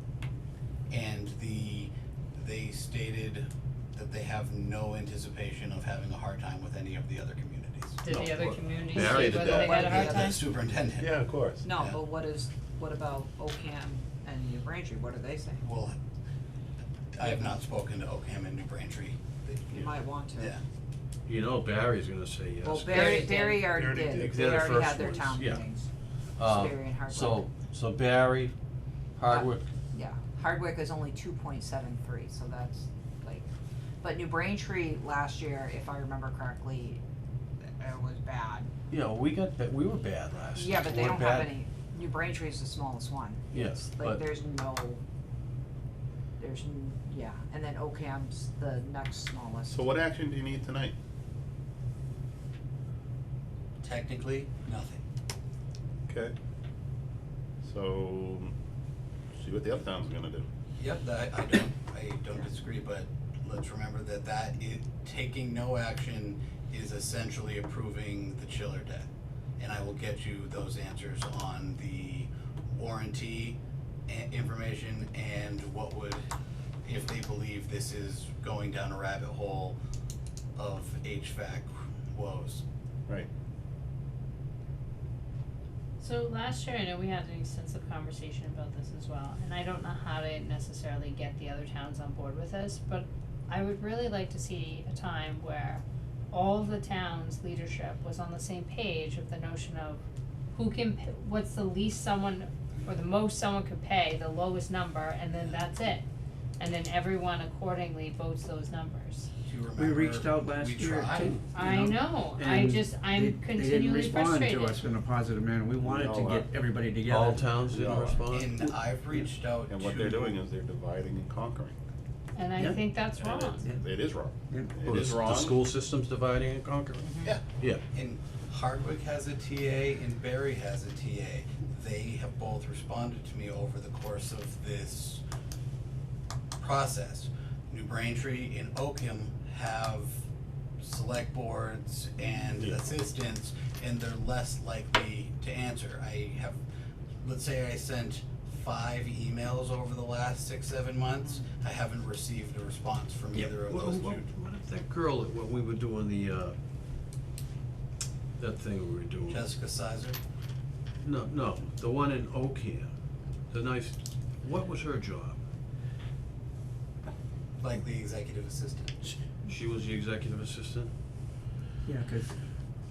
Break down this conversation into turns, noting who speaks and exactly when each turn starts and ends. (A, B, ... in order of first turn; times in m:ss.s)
0:00.9-0:08.0 A
0:08.0-0:10.4 B
0:08.1-0:10.3 C
0:09.1-0:10.4 D
0:09.1-0:11.1 A
0:11.0-0:11.6 C
0:11.6-0:15.6 D
0:15.6-0:16.0 A
0:17.1-0:20.6 A
0:17.2-0:17.5 D
0:19.7-0:20.6 D
0:21.3-0:25.6 E
0:22.6-0:25.9 D
0:22.8-0:24.8 C
0:26.4-0:28.5 E
0:26.4-0:27.5 D
0:29.2-0:29.7 E
0:29.3-0:33.5 D
0:34.0-0:37.0 D
0:37.8-0:38.7 D
0:38.9-0:41.6 E
0:40.6-0:45.0 D
0:43.5-0:44.2 E
0:46.4-0:49.8 D
0:49.7-0:50.9 C
0:53.8-0:55.0 A
0:56.1-0:56.3 C
0:57.6-0:58.5 C
0:59.3-1:00.4 C
1:00.8-1:16.2 A
1:16.8-1:19.8 A
1:20.6-1:22.6 A
1:26.0-1:40.0 B
1:40.5-1:46.0 B
1:46.6-1:49.3 B
1:49.4-1:51.5 A
1:49.7-1:57.6 F
1:51.5-1:54.9 B
1:55.8-1:56.5 C
1:57.1-1:58.6 E
1:57.7-1:58.2 C
1:58.3-2:00.4 A
1:58.6-1:59.2 F
1:59.7-2:01.8 C
2:02.3-2:03.6 B
2:02.6-2:02.8 F
2:03.1-2:05.6 C
2:04.5-2:04.8 F
2:04.8-2:07.8 E
2:07.2-2:15.2 A
2:16.6-2:20.2 A
2:20.8-2:26.6 A
2:27.2-2:34.3 A
2:33.3-2:36.5 E
2:38.4-2:39.5 E
2:39.3-2:40.2 A
2:41.0-2:42.9 E
2:43.5-2:45.4 E
2:47.6-2:49.2 A
2:49.4-2:50.9 E
2:51.8-2:52.3 F